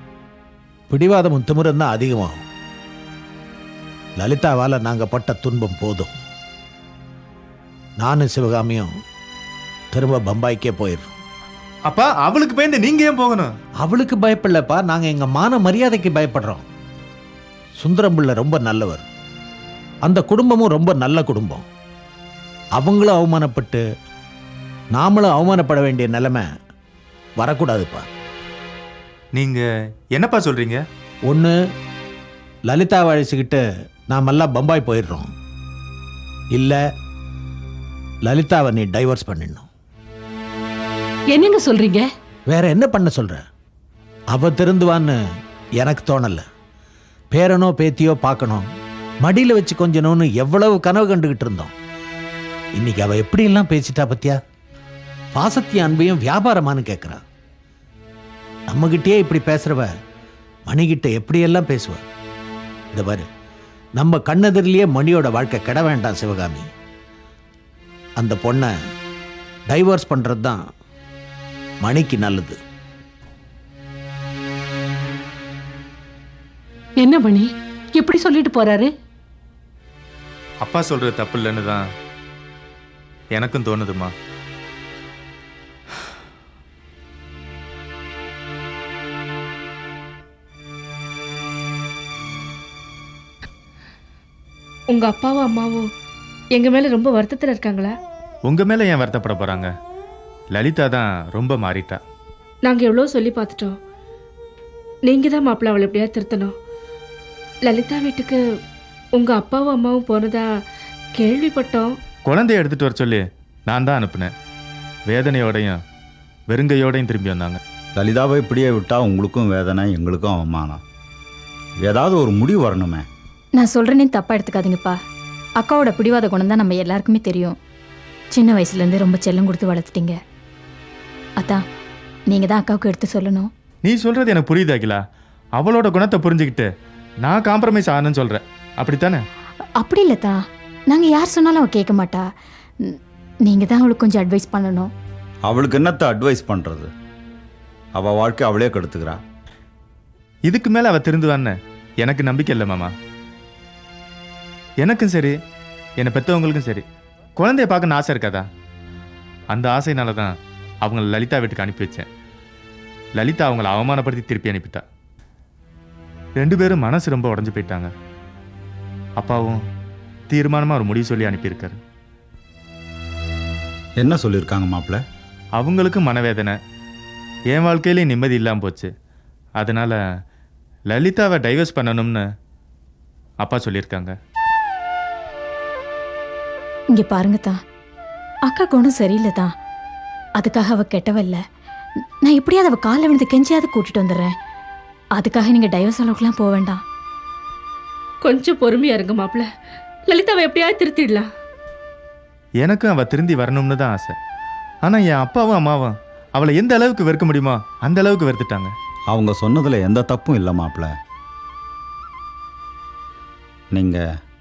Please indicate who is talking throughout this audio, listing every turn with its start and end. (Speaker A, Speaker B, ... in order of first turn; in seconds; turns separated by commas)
Speaker A: 0.9-2.4, Speaker A: 4.2-6.1, Speaker A: 8.0-8.9, Speaker A: 9.9-11.2, Speaker B: 11.9-13.5, Speaker A: 13.8-16.6, Speaker A: 17.8-19.1, Speaker A: 20.1-21.6, Speaker A: 22.8-23.8, Speaker A: 24.9-26.5, Speaker A: 27.4-28.1, Speaker B: 29.3-30.8, Speaker A: 31.3-31.5, Speaker A: 32.7-35.3, Speaker A: 36.5-36.8, Speaker A: 38.2-39.6, Speaker C: 41.3-42.0, Speaker A: 42.5-43.4, Speaker A: 44.3-45.2, Speaker A: 45.8-46.4, Speaker A: 47.3-48.6, Speaker A: 49.2-51.7, Speaker A: 52.8-54.4, Speaker A: 55.3-57.2, Speaker A: 58.7-59.9, Speaker A: 60.7-62.0, Speaker A: 62.9-63.3, Speaker A: 64.0-66.7, Speaker A: 68.2-68.7, Speaker A: 69.7-70.6, Speaker A: 71.8-72.6, Speaker C: 77.0-78.9, Speaker B: 80.6-81.8, Speaker B: 83.3-84.1, Speaker D: 94.9-95.9, Speaker D: 96.5-97.9, Speaker B: 98.5-99.7, Speaker B: 100.5-102.0, Speaker D: 102.7-103.8, Speaker D: 105.1-106.5, Speaker D: 107.7-108.4, Speaker D: 109.2-110.4, Speaker D: 111.2-111.9, Speaker B: 112.3-114.3, Speaker B: 115.1-115.8, Speaker B: 116.5-117.6, Speaker E: 118.0-120.8, Speaker E: 121.8-123.1, Speaker F: 123.6-125.0, Speaker F: 125.6-127.6, Speaker F: 128.3-130.2, Speaker F: 132.3-133.5, Speaker B: 133.8-135.0, Speaker B: 135.6-136.7, Speaker B: 137.2-139.2, Speaker F: 139.8-140.4, Speaker F: 140.9-142.3, Speaker F: 142.8-144.9, Speaker E: 145.4-146.9, Speaker E: 147.9-149.2, Speaker B: 150.5-152.9, Speaker B: 154.8-155.3, Speaker B: 156.0-156.8, Speaker B: 157.4-158.4, Speaker B: 159.5-162.1, Speaker B: 163.2-164.8, Speaker B: 166.4-167.9, Speaker B: 169.2-169.6, Speaker B: 170.3-171.8, Speaker E: 174.0-175.0, Speaker B: 175.6-176.6, Speaker B: 177.5-178.9, Speaker B: 179.6-180.0, Speaker B: 180.9-182.2, Speaker B: 183.4-184.1, Speaker F: 186.9-187.6, Speaker F: 188.4-189.5, Speaker F: 190.4-191.4, Speaker F: 192.2-194.3, Speaker F: 195.2-196.8, Speaker D: 198.2-199.5, Speaker D: 200.1-201.3, Speaker B: 202.6-204.1, Speaker B: 204.9-208.7, Speaker E: 209.1-210.9, Speaker E: 213.7-214.1